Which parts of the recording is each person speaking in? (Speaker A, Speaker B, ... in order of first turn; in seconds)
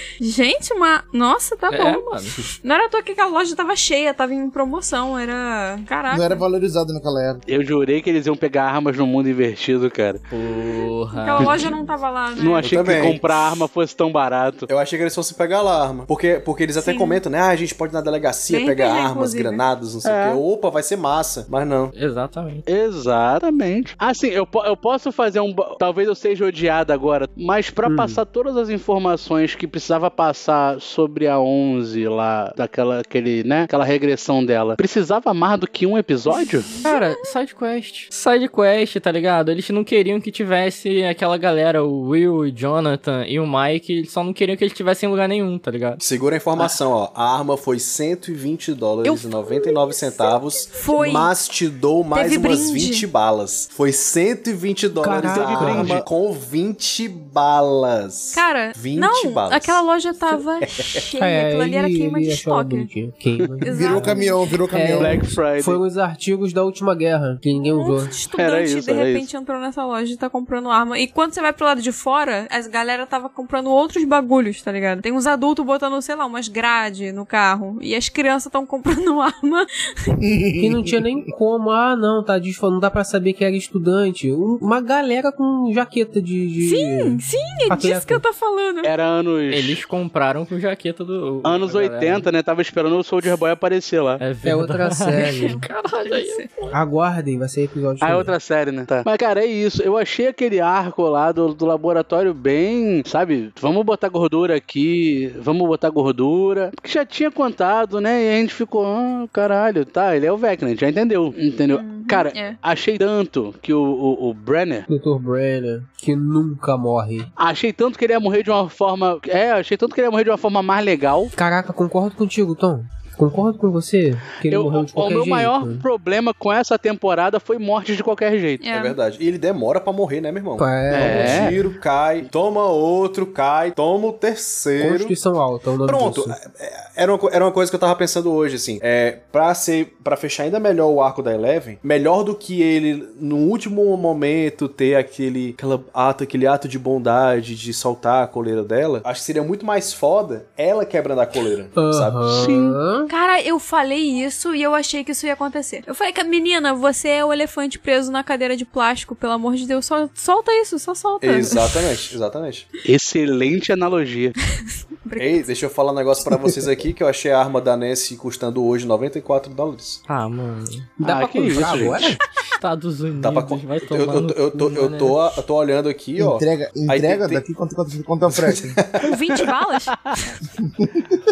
Speaker A: 0.2-6.5, 11.1-12.8, 16.8-17.2, 18.5-19.6, 36.4-37.3, 50.0-51.3, 52.1-53.1, 58.3-62.9, 63.6-64.5, 67.5-80.2, 86.6-88.9, 95.3-96.7, 111.7-112.6, 128.6-128.9, 153.1-162.0, 165.1-165.5, 179.0-179.9
Speaker B: 1.7-2.4, 10.3-11.7, 21.9-22.6, 36.8-46.0, 89.5-92.3, 94.2-96.5, 170.1-170.9, 172.6-175.3
Speaker C: 6.1-7.4, 63.7-65.3, 80.2-81.0, 166.3-166.7, 176.2-178.8
Speaker D: 7.5-10.2, 12.4-14.7, 20.0-20.4, 22.7-36.7, 55.2-56.1, 65.0-65.8, 68.4-69.3, 88.8-89.8, 91.4-94.2, 98.0-114.9, 117.4-121.3, 124.5-128.6, 130.9-131.6, 152.3-152.8, 162.9-164.3, 171.0-172.2
Speaker E: 12.6-13.2, 14.7-21.9, 46.0-59.8, 60.6-61.0, 128.7-135.1, 135.8-152.5, 161.2-162.7, 165.2-170.0, 173.2-177.4, 178.4-179.5
Speaker F: 27.9-28.2, 55.0-56.0, 61.2-64.2, 64.7-68.1, 80.6-88.2, 94.4-95.6, 96.7-98.3, 114.9-117.3, 121.4-125.8, 130.6-131.6, 134.8-136.4, 151.8-153.1, 171.0-172.2